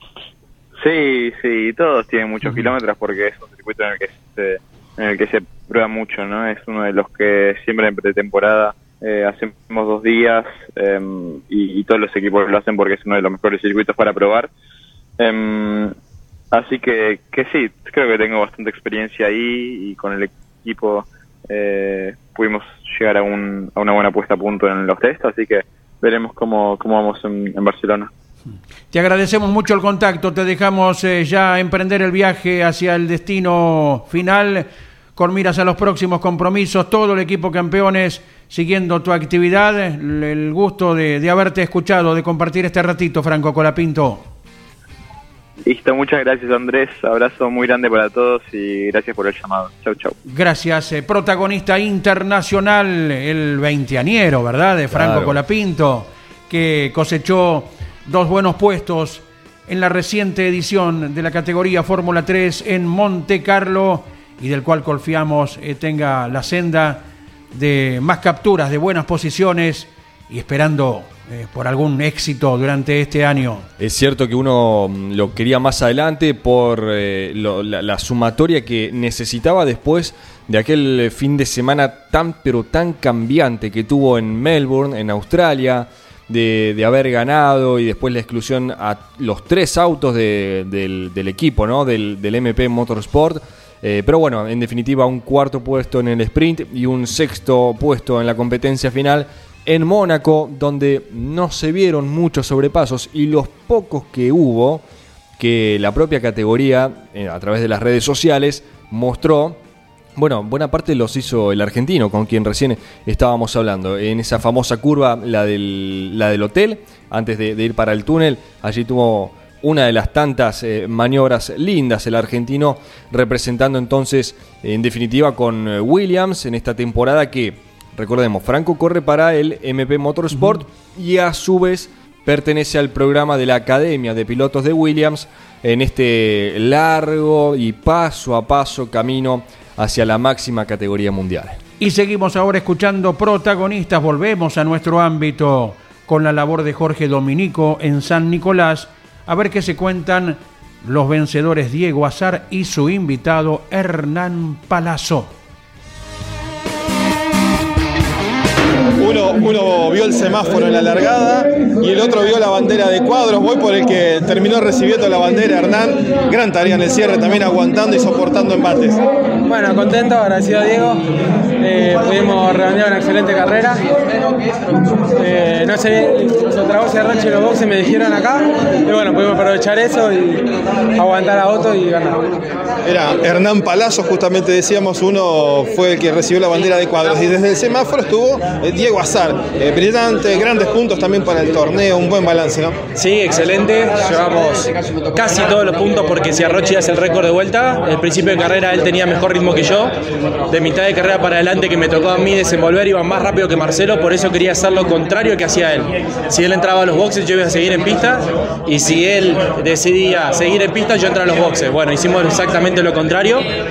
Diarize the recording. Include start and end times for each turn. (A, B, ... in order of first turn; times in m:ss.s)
0:00.8-0:14.5 A
0:15.2-0:16.0 A
0:16.5-0:28.1 A
0:28.9-0:44.3 B
0:45.7-0:50.2 A
0:50.3-1:13.7 B
0:54.9-0:55.4 C
1:13.8-1:44.8 C
1:45.4-1:49.6 C
1:50.2-2:21.6 C
2:21.8-2:35.3 B
2:39.0-2:49.0 D
2:49.4-2:51.1 E
2:51.6-2:53.9 E
2:55.2-3:02.3 E
3:02.8-3:12.8 D
3:13.0-3:20.0 F
3:20.5-3:33.5 F